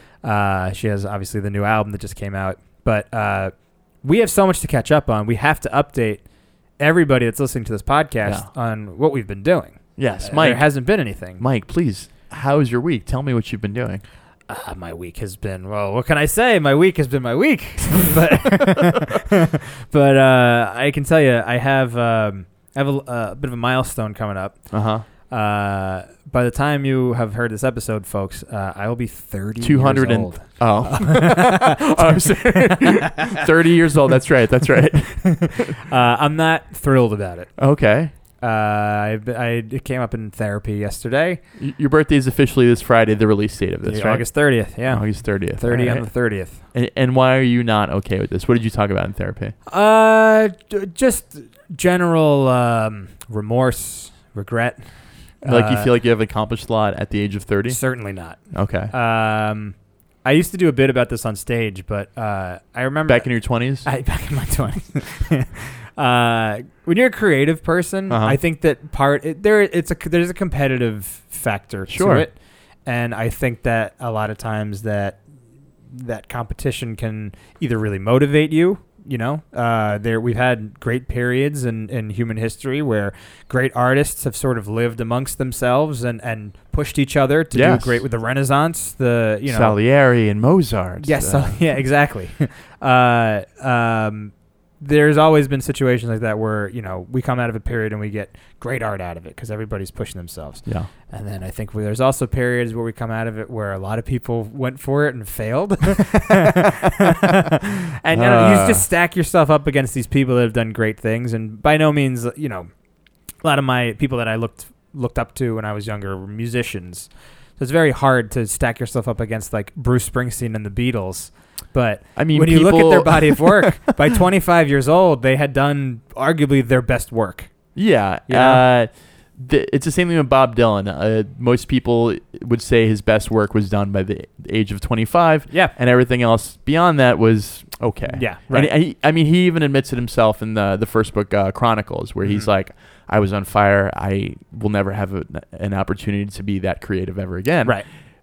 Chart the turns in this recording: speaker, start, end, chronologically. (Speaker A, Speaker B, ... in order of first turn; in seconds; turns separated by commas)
Speaker A: 0.2-3.5, Speaker A: 4.0-6.2, Speaker A: 6.8-11.4, Speaker B: 10.0-10.7, Speaker B: 11.4-14.0, Speaker A: 14.5-24.6, Speaker B: 24.7-25.0, Speaker A: 25.3-31.8, Speaker B: 29.6-35.7, Speaker A: 32.6-33.4, Speaker A: 35.2-37.5, Speaker B: 37.6-38.1, Speaker A: 38.4-41.4, Speaker B: 41.6-44.3, Speaker A: 43.9-46.6, Speaker B: 44.9-46.1, Speaker B: 46.7-49.5, Speaker A: 49.7-54.8, Speaker A: 55.4-55.9, Speaker B: 55.4-57.8, Speaker A: 57.7-58.4, Speaker B: 58.5-58.9, Speaker A: 58.9-63.3, Speaker B: 63.1-63.9, Speaker A: 63.8-72.3, Speaker B: 68.1-68.4, Speaker B: 71.9-72.3, Speaker A: 72.8-75.2, Speaker A: 75.9-89.7, Speaker B: 87.5-88.0, Speaker B: 89.5-91.6, Speaker A: 91.0-112.7, Speaker B: 108.1-108.8, Speaker A: 113.4-127.5, Speaker B: 122.1-123.8, Speaker B: 127.7-147.8, Speaker A: 128.3-128.6, Speaker A: 138.1-138.7